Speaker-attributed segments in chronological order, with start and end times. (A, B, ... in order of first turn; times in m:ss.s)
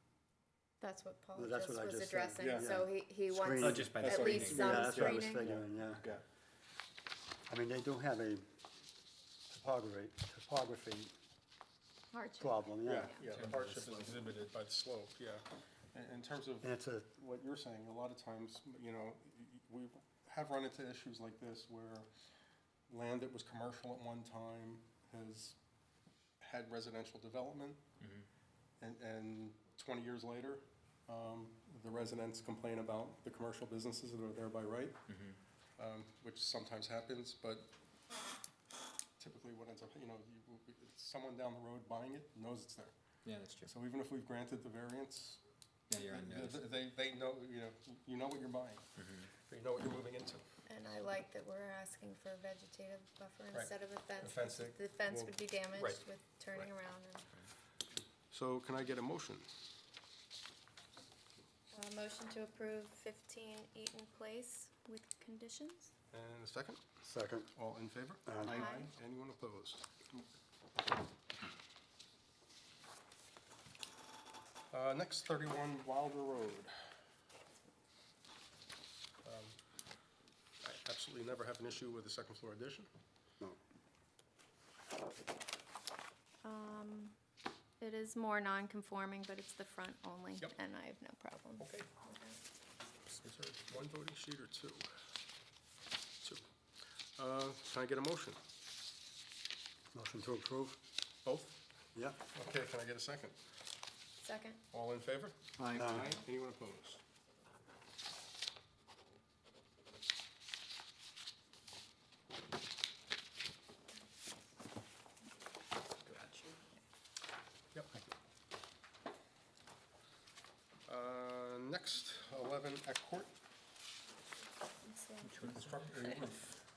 0:00.8-0:05.5 A
0:01.4-0:06.0 B
0:02.4-0:02.7 C
0:03.6-0:04.9 D
0:03.9-0:06.2 C
0:07.5-0:08.4 B
0:09.5-0:11.1 B
0:12.1-0:13.2 A
0:12.4-0:13.1 B
0:12.8-0:22.1 C
0:13.3-0:14.1 D
0:16.6-0:17.1 B
0:22.9-0:25.6 C
0:26.4-0:27.8 C
0:28.0-0:28.2 D
0:28.8-0:35.0 C
0:35.1-0:35.4 D
0:35.8-0:37.7 C
0:39.2-0:42.9 C
0:43.2-0:43.7 D
0:43.6-0:45.4 C
0:45.9-0:46.7 D
0:46.0-0:50.4 C
0:49.0-0:49.3 D
0:50.6-0:57.2 A
0:53.5-0:56.7 C
0:58.2-0:59.5 C
1:01.7-1:05.9 A
1:06.1-1:06.8 C
1:07.0-1:07.5 B
1:07.5-1:10.2 C
1:08.3-1:08.7 B
1:08.5-1:08.9 A
1:14.7-1:16.7 C
1:19.2-1:19.6 C
1:20.6-1:22.9 C
1:26.4-1:27.2 A
1:27.8-1:32.4 A
1:31.6-1:31.9 C
1:33.1-1:34.9 C
1:37.2-1:38.4 C
1:39.9-1:40.8 B
1:41.2-1:41.6 C
1:41.9-1:42.2 B
1:42.3-1:43.4 C
1:44.2-1:44.6 A
1:44.7-1:47.0 C
1:45.6-1:46.2 B
1:45.6-1:46.0 D
1:56.0-1:56.5 D
2:00.8-2:03.3 C
2:04.8-2:05.3 A
2:05.2-2:06.1 D
2:05.4-2:06.6 C